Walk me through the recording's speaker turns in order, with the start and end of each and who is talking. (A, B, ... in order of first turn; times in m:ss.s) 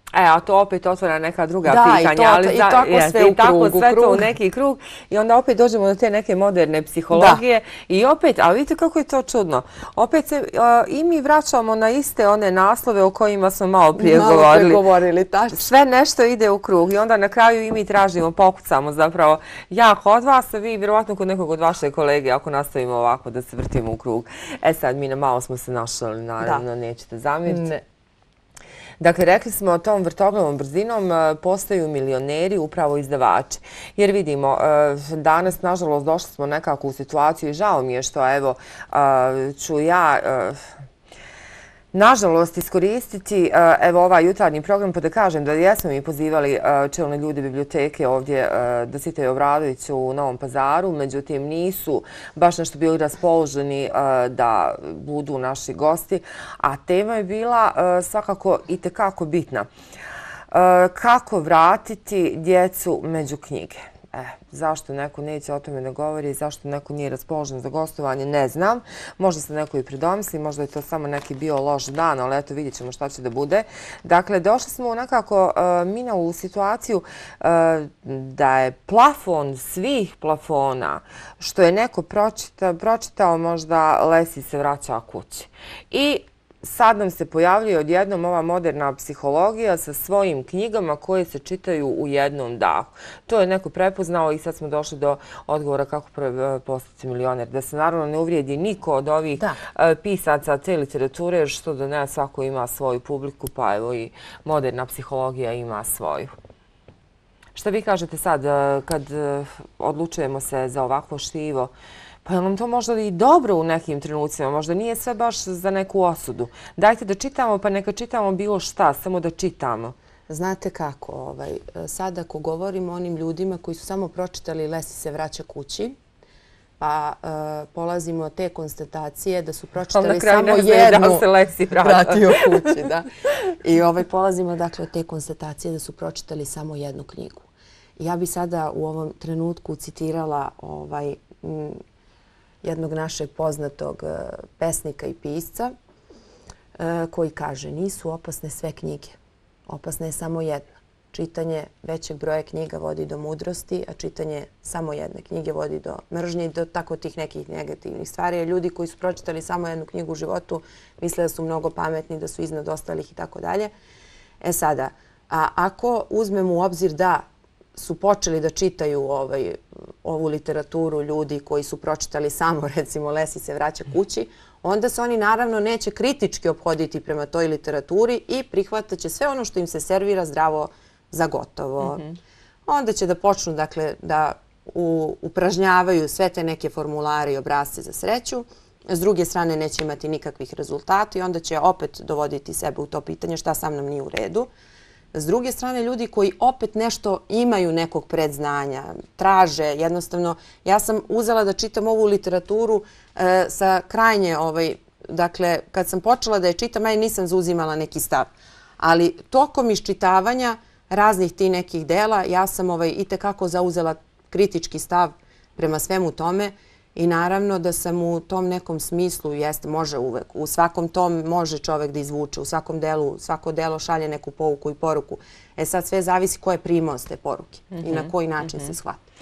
0:00.1-0:14.8 A
0:01.6-0:04.3 B
0:07.1-0:07.4 B
0:14.0-0:15.6 B
0:15.5-0:27.7 A
0:27.4-0:27.8 B
0:29.0-0:40.7 A
0:41.9-0:59.7 A
1:00.5-1:46.3 A
1:47.5-1:51.7 A
1:52.2-1:59.9 A
2:00.3-2:06.0 B
2:06.8-2:13.0 B
2:09.9-2:12.7 A
2:13.6-2:17.5 B
2:18.0-2:21.8 B
2:22.6-2:25.7 B
2:26.8-2:29.2 B
2:29.7-2:43.7 B
2:44.4-2:47.2 B
2:47.7-3:02.0 B
3:01.8-3:02.1 A
3:02.7-3:14.5 B
3:15.1-3:49.0 B
3:47.7-3:48.7 A